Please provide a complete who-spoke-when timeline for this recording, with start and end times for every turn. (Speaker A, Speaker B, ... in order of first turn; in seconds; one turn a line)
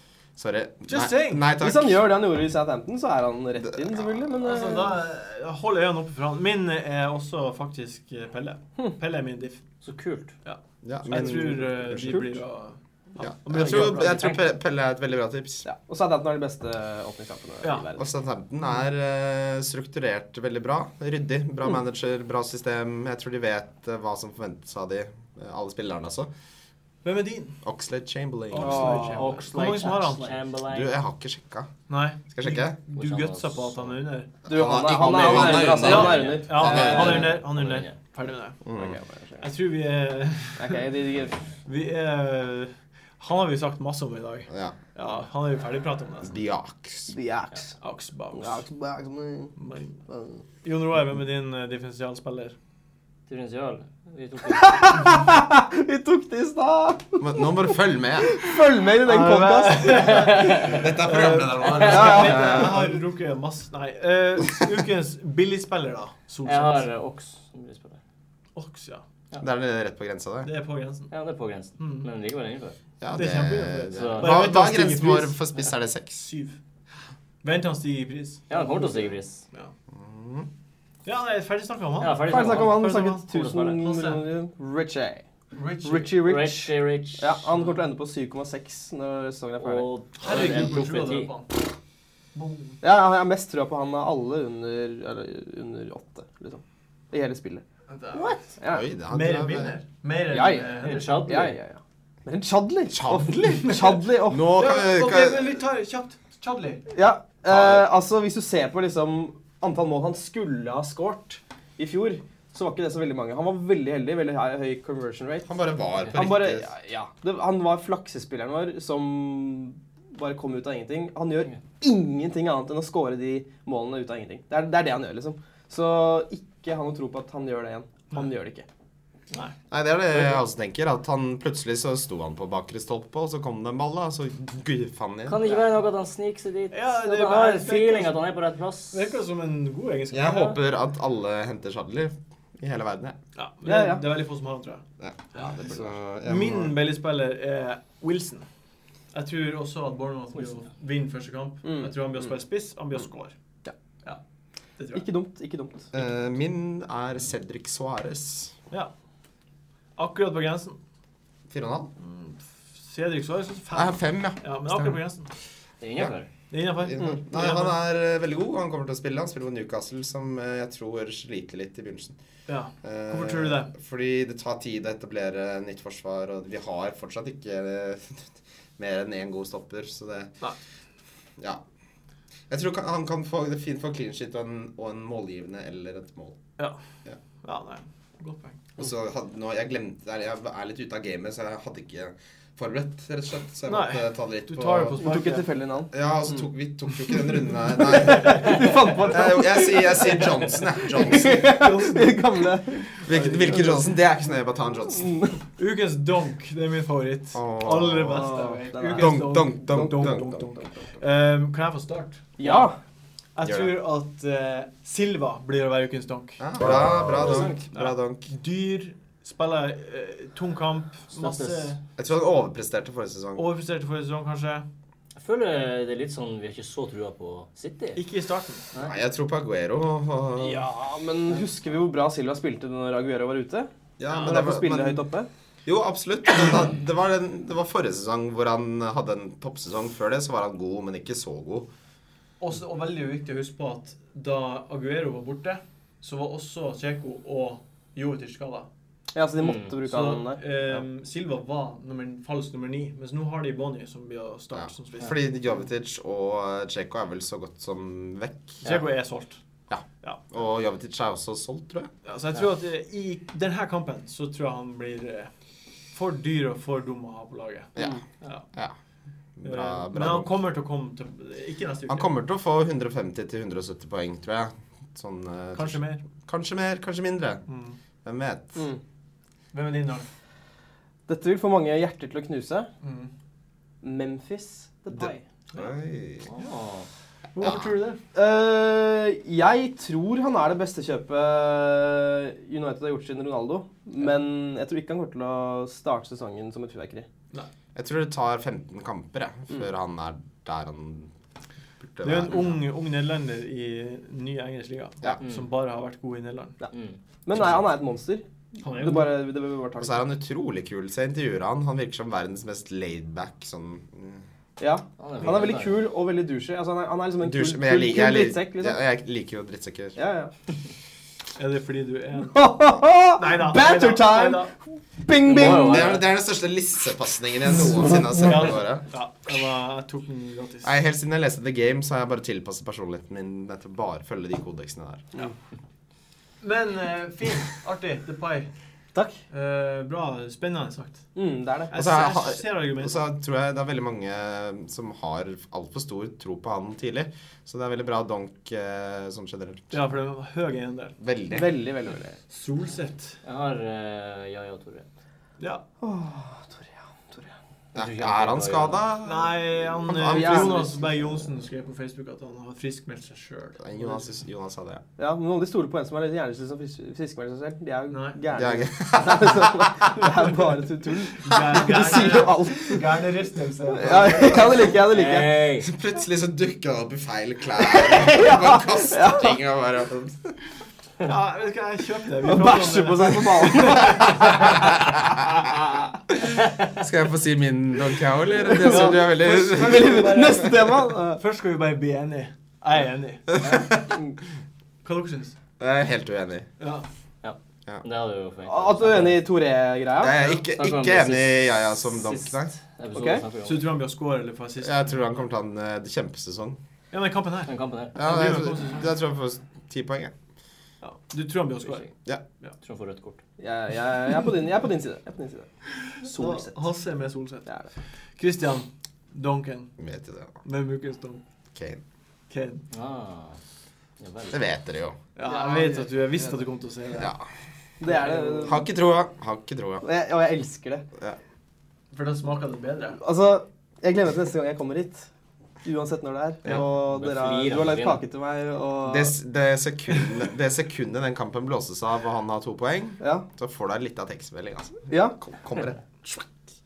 Speaker A: 0.4-2.0
Speaker B: 0.9-1.5
Speaker C: 1.6-5.0
Speaker A: 3.6-4.1
Speaker B: 4.4-9.6
Speaker D: 9.8-10.3
Speaker B: 10.4-14.3
Speaker A: 10.8-12.2
Speaker C: 11.9-12.4
Speaker A: 13.2-15.7
Speaker D: 13.6-14.4
Speaker C: 15.7-18.1
Speaker A: 18.0-26.3
Speaker B: 27.0-27.6
Speaker A: 27.6-29.0
Speaker B: 28.5-30.4
Speaker C: 28.6-29.5
Speaker D: 28.6-30.9
Speaker A: 30.7-31.7
Speaker B: 31.9-34.3
Speaker A: 32.3-32.8
Speaker D: 33.0-33.9
Speaker A: 34.5-37.4
Speaker C: 34.5-37.3
Speaker D: 35.1-38.0
Speaker B: 35.3-38.6
Speaker A: 38.6-39.0
Speaker C: 38.8-39.5
Speaker B: 39.4-40.8
Speaker C: 40.6-41.5
Speaker B: 41.7-46.4
Speaker A: 44.5-44.8
Speaker A: 46.2-47.1
Speaker C: 47.1-47.7
Speaker B: 47.8-48.6
Speaker C: 48.3-49.5
Speaker B: 49.6-50.0
Speaker C: 50.1-50.4
Speaker B: 50.6-52.5
Speaker D: 53.3-54.8
Speaker C: 54.5-60.4
Speaker A: 57.2-58.3
Speaker B: 59.0-66.9
Speaker D: 59.9-60.8
Speaker A: 60.5-62.8
Speaker C: 61.8-62.9
Speaker D: 66.5-68.0
Speaker B: 68.5-69.0
Speaker A: 69.4-70.5
Speaker B: 70.4-71.1
Speaker D: 71.1-72.8
Speaker B: 71.8-72.1
Speaker A: 73.0-76.3
Speaker B: 73.2-75.4
Speaker D: 73.9-74.4
Speaker B: 76.2-76.6
Speaker B: 77.4-78.5
Speaker D: 78.5-79.4
Speaker C: 78.5-79.1
Speaker A: 79.9-80.5
Speaker B: 81.0-83.2
Speaker D: 82.0-83.8
Speaker C: 82.2-85.2
Speaker B: 83.8-84.2
Speaker B: 85.5-86.2
Speaker C: 85.8-90.7
Speaker D: 86.1-87.4
Speaker D: 89.6-91.3
Speaker B: 90.2-91.6
Speaker B: 92.3-92.8
Speaker C: 92.8-97.6
Speaker B: 97.9-98.4
Speaker D: 98.1-98.5
Speaker C: 98.6-98.8
Speaker A: 98.7-99.8
Speaker B: 99.1-101.5
Speaker C: 100.3-104.5
Speaker D: 100.7-101.6
Speaker A: 102.9-105.5
Speaker B: 103.7-106.8
Speaker C: 106.9-115.5
Speaker A: 107.5-107.9
Speaker A: 115.5-116.7
Speaker C: 116.1-128.7
Speaker B: 129.3-129.6
Speaker A: 129.7-135.6
Speaker D: 135.3-139.1
Speaker B: 136.7-138.2
Speaker B: 138.9-140.6
Speaker A: 140.1-143.2
Speaker B: 143.3-144.8
Speaker C: 143.7-144.0
Speaker A: 145.0-146.8
Speaker B: 145.3-148.5
Speaker B: 149.1-153.3
Speaker C: 151.7-151.9
Speaker B: 154.8-155.1
Speaker C: 154.9-155.9
Speaker A: 155.9-158.5
Speaker B: 160.0-160.8
Speaker A: 161.5-161.9
Speaker B: 162.0-165.3
Speaker A: 163.7-165.0
Speaker D: 165.8-166.3
Speaker B: 166.5-167.8
Speaker A: 166.8-172.2
Speaker B: 172.5-173.7
Speaker A: 172.8-180.3
Speaker A: 182.5-186.4
Speaker B: 187.4-188.7
Speaker A: 188.8-195.1
Speaker B: 193.7-195.5
Speaker C: 195.0-195.9
Speaker A: 195.9-201.5
Speaker C: 197.8-200.4
Speaker B: 198.4-198.7
Speaker C: 200.9-203.8
Speaker B: 201.1-202.2
Speaker A: 203.0-205.3
Speaker B: 203.1-203.9
Speaker C: 204.9-205.4
Speaker B: 205.6-212.7
Speaker A: 207.3-208.3
Speaker C: 208.1-210.7
Speaker A: 208.9-210.4
Speaker C: 212.4-212.8
Speaker B: 213.4-216.5
Speaker A: 213.4-213.7
Speaker A: 216.4-218.3
Speaker D: 217.1-217.6
Speaker B: 217.5-221.8
Speaker D: 221.1-221.8
Speaker A: 222.0-223.4
Speaker B: 223.4-224.7
Speaker D: 225.2-228.0
Speaker B: 227.9-228.7
Speaker A: 228.8-230.7
Speaker C: 230.4-233.7
Speaker A: 234.0-235.0
Speaker C: 234.2-235.3
Speaker A: 235.7-241.7
Speaker B: 242.4-248.7
Speaker C: 249.1-250.8
Speaker D: 249.4-249.7
Speaker B: 249.9-255.2
Speaker A: 254.6-258.6
Speaker B: 258.6-259.4
Speaker A: 259.7-261.9
Speaker B: 262.1-265.3
Speaker B: 265.9-268.5
Speaker A: 269.4-270.3
Speaker B: 269.4-272.1
Speaker A: 271.9-277.4
Speaker B: 275.5-276.0
Speaker B: 277.5-277.8
Speaker A: 278.1-278.6
Speaker B: 279.5-280.1
Speaker C: 281.1-282.7
Speaker B: 282.8-283.1
Speaker C: 283.8-285.2
Speaker A: 285.0-286.3
Speaker D: 286.3-286.9
Speaker B: 287.4-288.0
Speaker C: 288.1-297.1
Speaker A: 297.8-301.1
Speaker A: 301.9-302.6
Speaker B: 302.0-306.6
Speaker D: 306.7-307.0
Speaker C: 307.3-310.0
Speaker B: 308.6-309.2
Speaker A: 309.8-314.2
Speaker C: 314.6-318.8
Speaker D: 315.0-315.8
Speaker A: 317.2-320.0
Speaker C: 320.0-320.3
Speaker B: 321.4-322.4
Speaker C: 322.3-326.0
Speaker B: 323.2-324.5
Speaker D: 325.2-326.1
Speaker A: 325.4-328.9
Speaker B: 328.2-330.7
Speaker A: 330.6-335.1
Speaker B: 336.4-338.5
Speaker B: 339.3-341.1
Speaker C: 341.2-341.7
Speaker B: 341.7-343.0
Speaker A: 341.7-349.7
Speaker B: 349.7-351.0
Speaker A: 351.0-351.5
Speaker C: 351.3-352.2
Speaker B: 352.3-353.2
Speaker D: 353.2-354.9
Speaker B: 355.4-355.6
Speaker C: 355.8-357.3
Speaker D: 357.7-358.8
Speaker A: 357.8-359.4
Speaker B: 359.0-364.1
Speaker A: 359.9-360.7
Speaker C: 360.0-360.8
Speaker A: 363.6-364.8
Speaker C: 365.0-373.0
Speaker B: 367.9-368.2
Speaker A: 368.3-369.8
Speaker B: 371.2-374.7
Speaker C: 373.7-375.4
Speaker D: 374.8-375.7
Speaker A: 375.6-380.4
Speaker C: 377.6-379.4
Speaker B: 381.0-384.4
Speaker C: 382.2-384.6
Speaker A: 384.4-384.9
Speaker A: 386.7-390.2
Speaker C: 388.4-391.2
Speaker B: 388.6-393.4
Speaker A: 393.4-393.7
Speaker B: 394.8-395.4
Speaker A: 395.6-396.5
Speaker B: 396.6-396.9
Speaker D: 397.2-399.3
Speaker C: 398.5-400.2
Speaker A: 400.0-402.6
Speaker D: 400.4-403.6
Speaker C: 402.9-403.2
Speaker B: 403.4-405.1
Speaker A: 404.6-406.6
Speaker B: 406.9-408.9
Speaker D: 407.5-408.0
Speaker A: 408.0-410.1
Speaker B: 410.8-411.9
Speaker D: 412.6-413.2
Speaker C: 413.4-415.5
Speaker C: 416.0-416.6
Speaker B: 416.0-417.5
Speaker B: 418.2-419.7
Speaker A: 419.8-420.4
Speaker B: 420.4-421.2
Speaker A: 421.6-421.8
Speaker B: 422.3-422.7
Speaker D: 422.7-423.4
Speaker D: 424.0-424.4
Speaker A: 424.3-425.0
Speaker B: 425.2-427.1
Speaker C: 425.2-426.4
Speaker A: 427.0-427.2
Speaker C: 427.8-428.6
Speaker B: 427.9-428.5
Speaker A: 428.4-429.8
Speaker C: 429.8-430.9
Speaker B: 431.9-433.0
Speaker C: 433.0-435.1
Speaker C: 435.6-439.1
Speaker D: 436.5-438.0
Speaker A: 438.8-446.3
Speaker C: 444.9-445.2